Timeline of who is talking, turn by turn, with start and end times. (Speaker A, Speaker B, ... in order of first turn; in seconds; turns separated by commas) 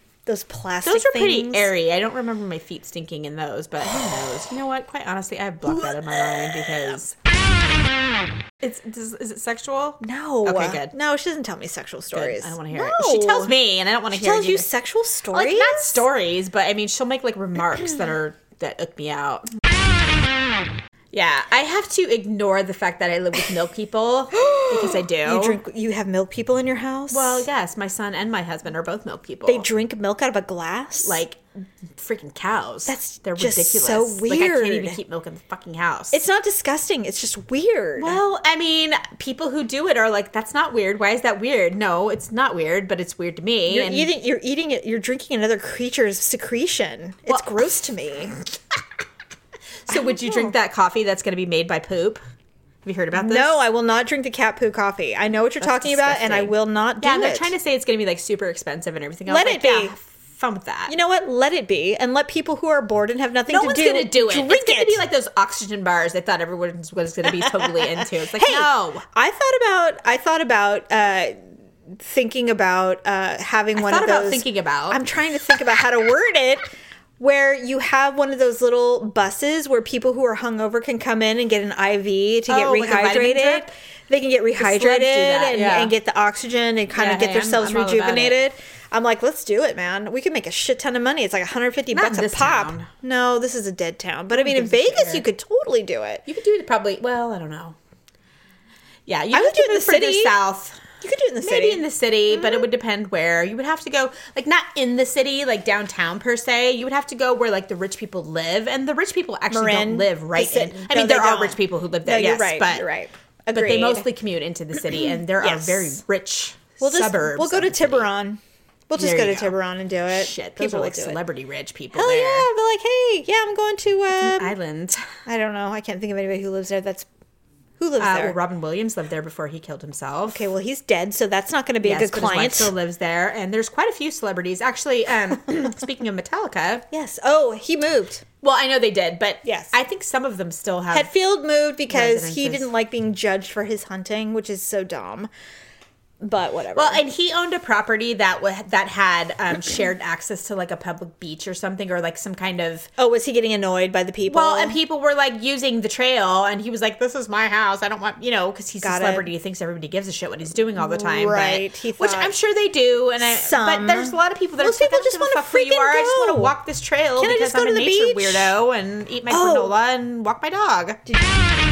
Speaker A: 0.2-1.7, Speaker B: 0.8-7.1, Speaker A: 5.6-7.0, Speaker B: 8.6-10.9, Speaker A: 10.0-13.5, Speaker B: 12.1-14.7, Speaker A: 14.1-16.0, Speaker B: 15.3-19.5, Speaker B: 21.1-25.6, Speaker A: 24.4-27.5, Speaker B: 27.1-29.7, Speaker A: 29.4-31.2, Speaker B: 31.0-31.4, Speaker B: 31.9-36.2, Speaker A: 32.9-35.0, Speaker A: 36.1-38.2, Speaker B: 38.0-44.1, Speaker A: 43.7-48.4, Speaker B: 47.3-47.6, Speaker B: 49.9-52.2, Speaker A: 49.9-50.5, Speaker B: 52.8-53.5, Speaker A: 53.1-57.5, Speaker B: 55.6-61.0, Speaker A: 59.3-60.0, Speaker A: 60.9-65.0, Speaker B: 63.5-69.0, Speaker A: 67.5-71.3, Speaker A: 72.0-96.2, Speaker B: 73.8-75.0, Speaker B: 82.5-83.7, Speaker B: 84.6-85.9, Speaker B: 86.9-88.4, Speaker B: 91.9-92.9, Speaker B: 94.3-95.2, Speaker B: 96.2-97.8, Speaker B: 99.0-100.8, Speaker A: 99.3-100.4, Speaker A: 101.0-102.7, Speaker B: 101.4-112.9, Speaker A: 109.5-114.1, Speaker B: 113.5-118.1, Speaker A: 114.9-116.0, Speaker A: 116.8-121.2, Speaker B: 118.9-119.5, Speaker B: 120.1-122.5, Speaker A: 121.9-124.5, Speaker B: 124.1-125.0, Speaker A: 125.2-127.1, Speaker A: 127.8-128.4, Speaker B: 128.0-130.4, Speaker A: 130.3-132.7, Speaker B: 131.8-136.8, Speaker A: 136.9-138.2, Speaker B: 138.4-141.1, Speaker A: 139.4-139.7, Speaker A: 140.9-145.3, Speaker B: 141.9-142.7, Speaker A: 146.2-147.0, Speaker B: 146.7-152.9, Speaker A: 153.0-154.8, Speaker B: 154.2-171.0, Speaker A: 158.8-159.3, Speaker A: 160.7-162.3, Speaker A: 163.2-166.5, Speaker A: 167.2-168.5, Speaker A: 169.3-169.7